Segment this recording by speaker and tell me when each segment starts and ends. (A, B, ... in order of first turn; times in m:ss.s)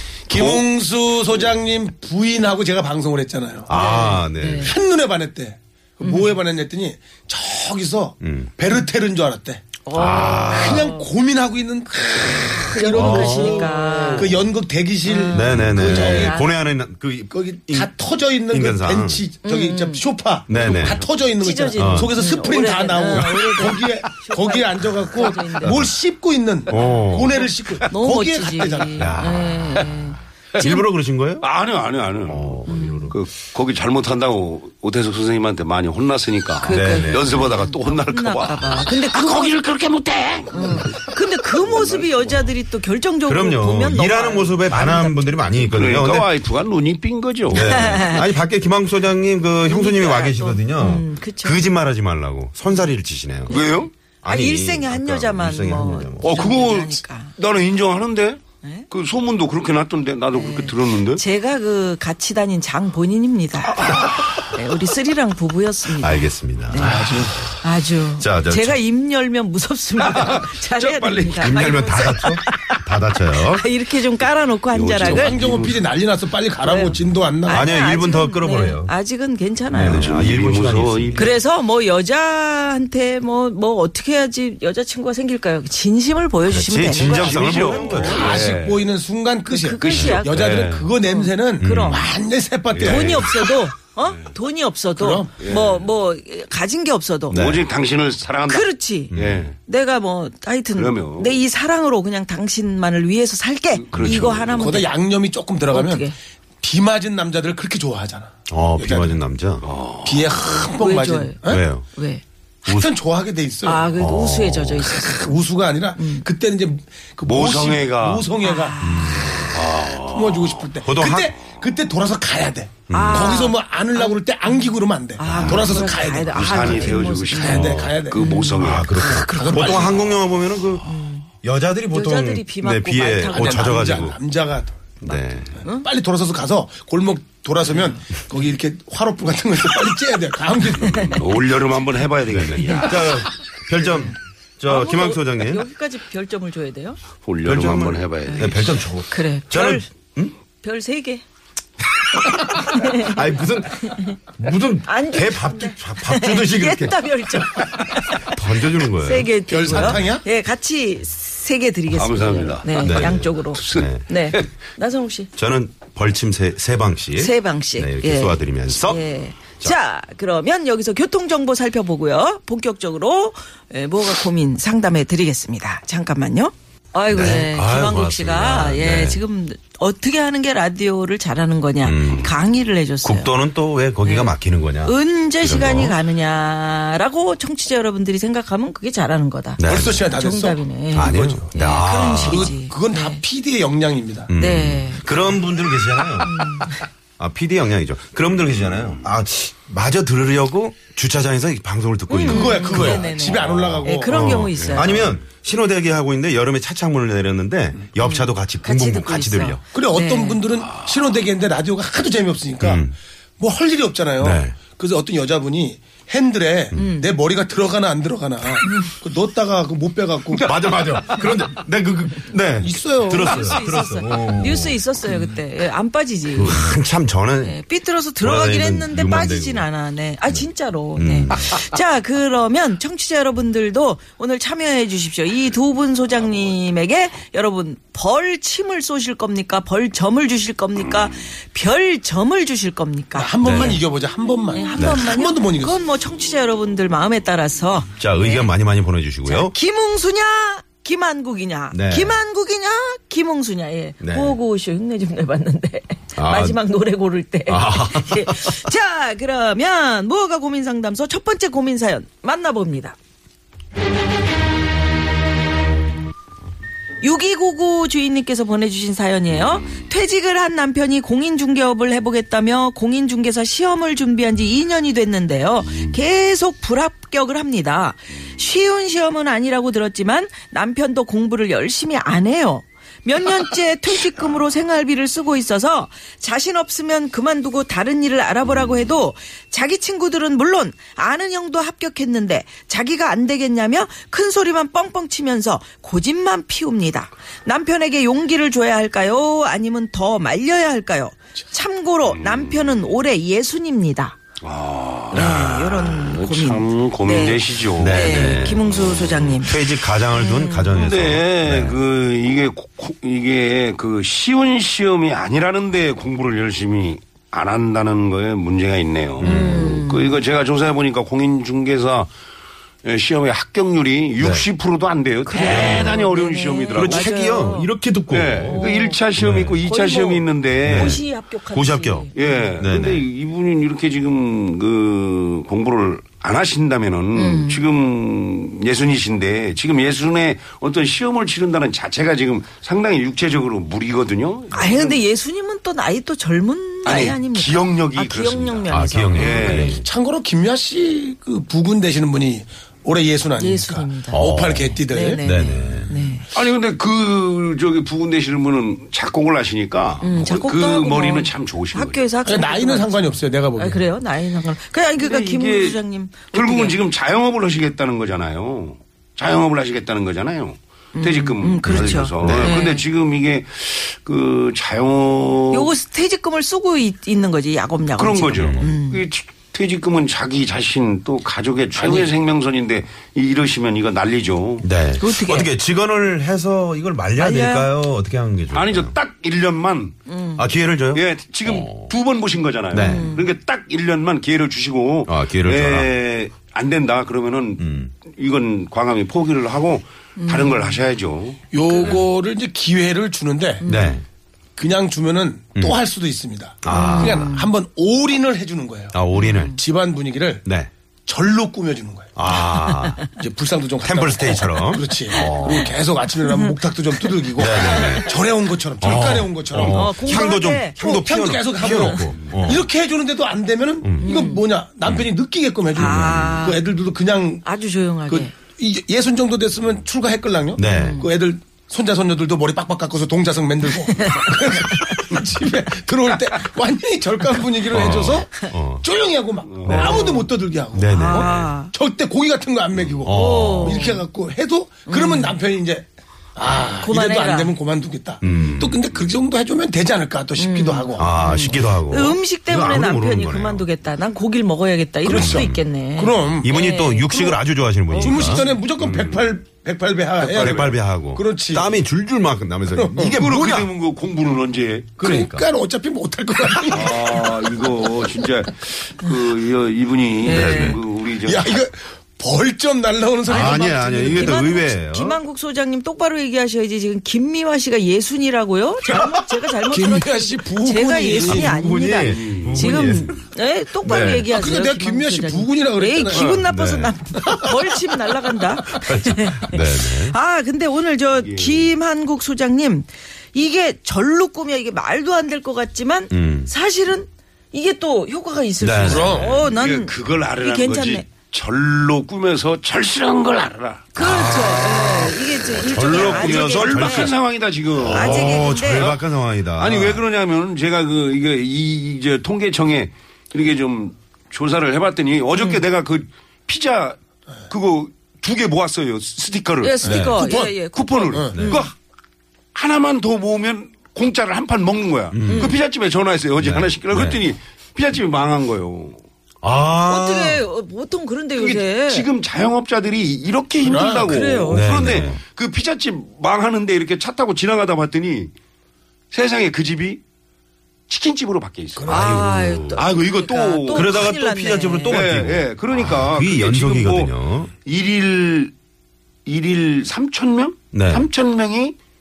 0:00.3-0:00.7 A
0:00.3-0:03.7 B
0:03.7-0:04.7 C
0:03.7-0:04.7 D
0:04.6-0:16.4 B
0:06.0-0:06.4 D
0:08.2-0:08.6 C
0:09.8-0:11.1 D
0:09.9-0:10.9 C
0:12.6-0:14.4 D
0:12.9-0:14.4 C
0:15.0-0:16.6 D
0:15.3-0:17.9 C
0:17.3-0:29.2 B
0:18.5-0:19.3 C
0:19.4-0:20.0 D
0:20.5-0:21.1 C
0:20.6-0:25.9 D
0:21.8-0:22.2 C
0:23.1-0:23.4 C
0:25.6-0:25.9 C
0:26.7-0:27.4 C
0:26.7-0:30.9 D
0:28.9-0:31.4 C
0:31.4-0:42.5 A
0:32.2-0:33.2 C
0:32.7-0:33.1 D
0:36.6-0:39.6 D
0:36.6-0:37.3 C
0:40.5-0:45.3 D
0:43.2-0:46.3 C
0:45.6-0:47.9 A
0:47.5-0:53.6 C
0:47.5-0:48.3 D
0:49.6-0:51.7 D
0:53.5-0:53.9 A
0:53.5-0:57.3 D
0:54.2-0:56.6 C
0:56.2-1:01.2 A
0:58.6-0:58.9 D
1:00.3-1:07.0 D
1:05.9-1:07.6 C
1:06.8-1:07.4 B
1:07.6-1:15.4 D
1:08.2-1:08.8 C
1:10.0-1:11.9 A
1:11.4-1:13.7 C
1:14.7-1:16.0 A
1:15.0-1:17.7 B
1:16.6-1:20.2 D
1:17.5-1:18.9 C
1:19.7-1:21.4 C
1:19.7-1:21.4 A
1:21.1-1:28.2 D
1:26.4-1:28.4 C
1:27.0-1:28.8 A
1:28.0-1:33.4 B
1:29.5-1:32.2 D
1:29.8-1:30.2 C
1:30.0-1:30.9 A
1:31.6-1:32.1 C
1:32.7-1:33.4 A
1:32.8-1:37.4 D
1:34.9-1:35.3 B
1:35.4-1:35.9 A
1:37.3-1:37.6 C
1:37.3-1:39.6 A
1:38.5-1:44.9 D
1:39.1-1:39.5 C
1:40.7-1:41.4 A
1:43.8-1:44.7 A
1:44.5-1:46.1 B
1:45.7-1:46.2 D
1:46.6-1:49.1 B
1:48.5-1:49.7 C
1:49.6-1:50.3 A
1:50.0-1:51.6 B
1:50.4-1:52.2 D
1:51.4-1:51.9 C
1:52.6-1:53.0 C
1:52.6-1:53.9 B
1:53.6-1:55.4 D
1:54.0-1:54.9 C
1:54.8-1:58.8 B
1:56.0-1:56.3 D
1:57.2-1:58.3 A
1:58.4-1:59.5 D
1:58.8-1:59.6 C
1:59.4-2:08.3 B
1:59.5-2:00.7 A
2:00.8-2:01.3 C
2:02.9-2:03.4 C
2:02.9-2:09.9 D
2:05.2-2:05.8 C
2:05.4-2:08.9 A
2:06.5-2:06.9 C
2:08.5-2:14.2 C
2:09.1-2:10.1 B
2:10.8-2:11.3 D
2:11.9-2:14.0 D
2:13.3-2:14.7 B
2:15.0-2:15.6 C
2:15.6-2:21.2 B
2:20.8-2:23.3 A
2:22.3-2:25.7 C
2:23.9-2:24.1 D
2:24.6-2:27.0 D
2:27.2-2:28.8 A
2:27.4-2:30.3 C
2:28.3-2:29.9 D
2:30.6-2:31.2 D
2:32.3-2:40.1 C
2:32.4-2:33.2 D
2:33.9-2:34.2 D
2:34.8-2:45.3 D
2:39.5-2:40.2 B
2:41.9-2:44.4 A
2:42.8-2:44.0 C
2:45.4-2:49.0 C
2:47.2-3:03.3 D
2:57.1-2:59.2 C
3:01.8-3:02.3 C
3:03.0-3:06.0 C
3:04.0-3:13.2 D
3:09.6-3:10.0 C
3:09.6-3:11.5 B
3:10.9-3:12.5 C
3:12.2-3:14.3 B
3:14.3-3:29.6 C
3:14.3-3:15.4 D
3:16.2-3:16.8 D
3:22.1-3:25.2 D
3:22.2-3:24.4 B
3:28.0-3:30.4 D
3:29.7-3:32.8 B
3:32.6-3:32.9 C
3:33.4-3:40.5 B
3:34.2-3:34.6 C
3:36.7-3:37.1 D
3:38.6-3:39.0 D
3:40.4-3:44.8 C
3:42.6-3:43.7 B
3:43.1-3:46.7 D
3:46.3-3:47.6 C
3:47.4-4:03.8 D
3:48.2-3:49.7 C
3:50.3-3:51.6 C
4:03.1-4:05.8 B
4:03.4-4:03.8 C
4:04.5-4:08.5 D
4:04.8-4:05.0 C
4:08.0-4:09.5 C
4:09.2-4:23.0 D
4:11.7-4:12.2 C
4:14.0-4:14.4 C
4:16.2-4:16.6 C
4:17.5-4:18.7 C
4:27.0-5:04.2 D
4:29.3-4:29.8 A
5:02.0-5:02.9 A
5:04.4-5:08.4 A
5:05.1-5:10.9 D
5:07.8-5:11.8 C
5:10.7-5:22.1 A
5:19.2-5:19.7 C
5:19.2-5:20.1 D
5:22.8-5:27.1 A
5:24.2-5:24.5 C
5:25.2-5:27.7 D
5:25.4-5:26.0 C
5:26.7-5:29.6 C
5:28.1-5:31.0 A
5:28.5-5:29.0 D
5:29.6-5:32.5 D
5:30.6-5:33.0 C
5:32.1-5:45.0 A
5:37.1-5:37.6 D
5:44.5-5:49.8 D
5:46.8-5:49.8 A
5:48.7-5:49.8 C
5:49.6-5:55.2 B
5:53.4-5:54.3 D
5:54.1-5:55.9 C
5:54.9-5:56.2 D
5:56.3-6:02.0 A
6:00.0-6:06.8 D
6:02.2-6:03.9 B
6:05.0-6:05.8 A
6:06.3-6:15.7 A
6:10.9-6:12.8 D
6:11.6-6:12.6 C
6:15.5-6:19.0 D
6:18.0-6:24.7 A
6:18.4-6:18.7 C
6:24.6-6:29.0 C
6:25.0-6:25.5 D
6:27.2-6:27.7 D
6:28.5-6:30.0 A
6:30.1-6:30.4 D
6:30.4-6:31.9 C
6:30.9-6:41.4 A
6:32.7-6:33.2 C
6:32.7-6:33.3 D
6:35.0-6:35.9 C
6:37.6-6:37.9 C
6:40.2-6:40.8 D
6:41.5-6:43.6 B
6:41.7-6:42.0 D
6:43.6-6:44.0 D
6:43.6-6:44.0 C
6:44.6-6:50.4 B
6:46.6-6:47.5 C
6:46.7-6:47.5 D
6:48.9-6:49.6 C
6:49.1-6:49.6 D
6:51.0-6:52.1 B
6:52.2-6:53.0 C
6:52.3-6:53.0 D
6:53.1-7:07.4 B
6:53.8-6:55.7 C
6:55.1-6:55.7 D
6:56.2-6:56.5 D
6:57.3-6:58.1 C
6:57.4-6:58.0 D
6:58.8-7:02.7 C
6:59.5-7:00.8 D
7:01.6-7:02.1 D
7:03.8-7:04.2 C
7:04.0-7:04.4 D
7:04.8-7:05.1 C
7:05.8-7:06.5 C
7:05.8-7:06.6 D
7:07.4-7:08.3 D
7:08.1-7:31.4 B
7:10.6-7:11.0 C
7:10.6-7:11.1 D
7:14.0-7:15.0 D
7:17.7-7:18.9 C
7:19.4-7:20.2 A
7:19.6-7:20.2 C
7:19.7-7:20.1 D
7:20.7-7:21.5 C
7:20.8-7:21.7 D
7:23.0-7:23.9 C
7:23.0-7:24.0 D
7:24.9-7:25.4 D
7:26.8-7:27.6 D
7:28.2-7:28.8 C
7:30.4-7:37.4 D
7:31.0-7:33.7 C
7:35.0-7:36.5 B
7:35.0-7:35.6 C
7:36.4-7:39.3 C
7:37.9-7:41.7 B
7:38.0-7:38.4 D
7:40.2-7:40.8 A
7:40.3-7:43.3 C
7:42.7-7:43.7 B
7:43.0-7:45.0 A
7:45.0-7:47.9 B
7:45.0-7:45.5 C
7:46.7-7:51.6 A
7:50.2-7:50.8 D
7:50.2-7:50.8 C
7:51.1-7:54.6 B
7:53.3-7:55.2 C
7:53.3-8:21.1 D
7:59.7-8:01.5 B
8:01.2-8:03.1 C
8:02.0-8:03.2 A
8:03.8-8:04.3 C
8:04.3-8:06.4 B
8:06.1-8:06.4 A
8:06.4-8:07.4 C
8:08.7-8:10.2 C
8:11.2-8:11.7 A
8:16.1-8:16.5 C
8:18.6-8:19.4 C
8:18.8-8:19.3 B
8:18.9-8:23.9 A
8:23.9-8:27.1 D
8:24.0-8:27.2 C
8:25.8-8:37.0 A
8:27.8-8:30.0 C
8:27.8-8:28.9 D
8:35.4-8:35.6 D
8:37.5-8:41.7 A
8:39.6-8:41.7 D
8:39.8-8:40.6 B
8:41.3-8:41.6 C
8:42.5-8:49.0 A
8:45.1-8:45.6 C
8:45.2-8:45.6 D
8:46.4-8:47.2 C
8:49.4-8:50.4 C
8:49.8-8:52.1 D
8:51.4-8:58.3 A
8:53.6-8:54.2 B
8:53.7-8:54.9 D
8:54.5-8:55.2 C
8:59.1-9:00.0 A
9:00.9-9:04.1 A
9:01.8-9:02.2 B
9:01.9-9:05.1 D
9:01.9-9:02.8 C
9:03.7-9:07.5 C
9:04.9-9:08.5 A
9:09.2-9:11.8 A
9:10.7-9:11.1 C